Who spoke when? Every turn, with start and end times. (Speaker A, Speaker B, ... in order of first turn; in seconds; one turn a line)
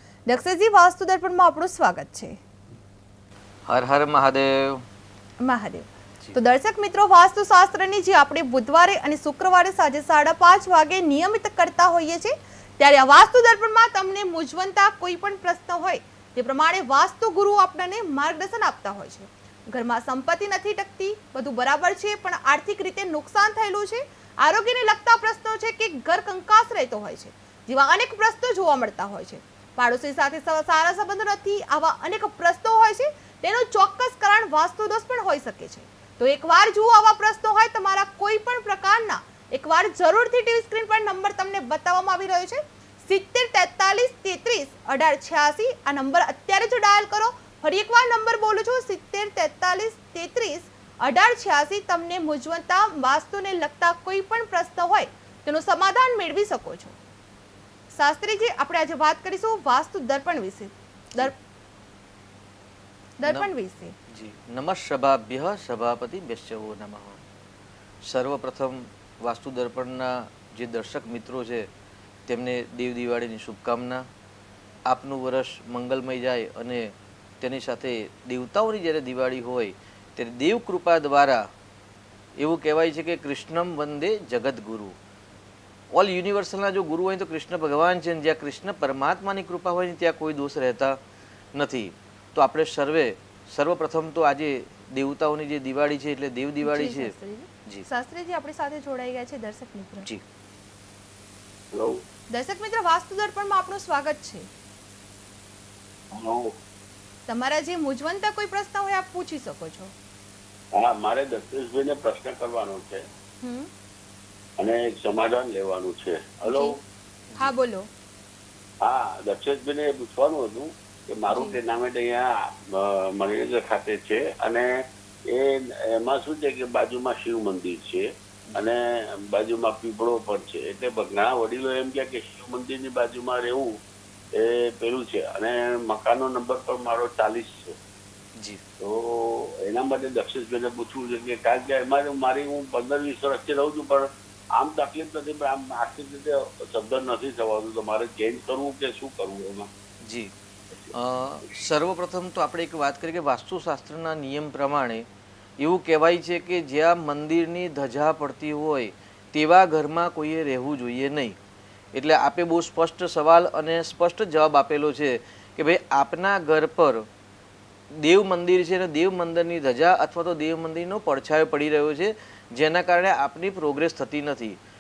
Speaker A: 0.3-2.4
Speaker B: 3.7-4.8
Speaker A: 5.4-57.0
Speaker A: 57.9-61.3
Speaker A: 63.2-64.0
Speaker B: 64.1-67.2
Speaker B: 68.0-71.7
Speaker B: 72.3-74.1
Speaker B: 74.9-81.5
Speaker B: 82.4-85.0
Speaker B: 85.9-91.0
Speaker B: 91.5-97.1
Speaker A: 96.6-100.1
Speaker C: 101.7-102.0
Speaker A: 102.3-104.5
Speaker C: 106.1-106.5
Speaker A: 107.3-109.9
Speaker C: 110.8-113.0
Speaker A: 113.4-113.7
Speaker C: 114.6-116.8
Speaker A: 116.5-116.8
Speaker A: 117.4-117.9
Speaker C: 118.8-124.7
Speaker A: 121.3-121.6
Speaker C: 125.3-133.7
Speaker C: 134.3-137.8
Speaker B: 138.4-138.6
Speaker C: 138.8-149.7
Speaker B: 150.0-150.3
Speaker B: 150.9-155.1
Speaker B: 155.6-161.4
Speaker B: 161.9-167.1
Speaker B: 167.9-174.6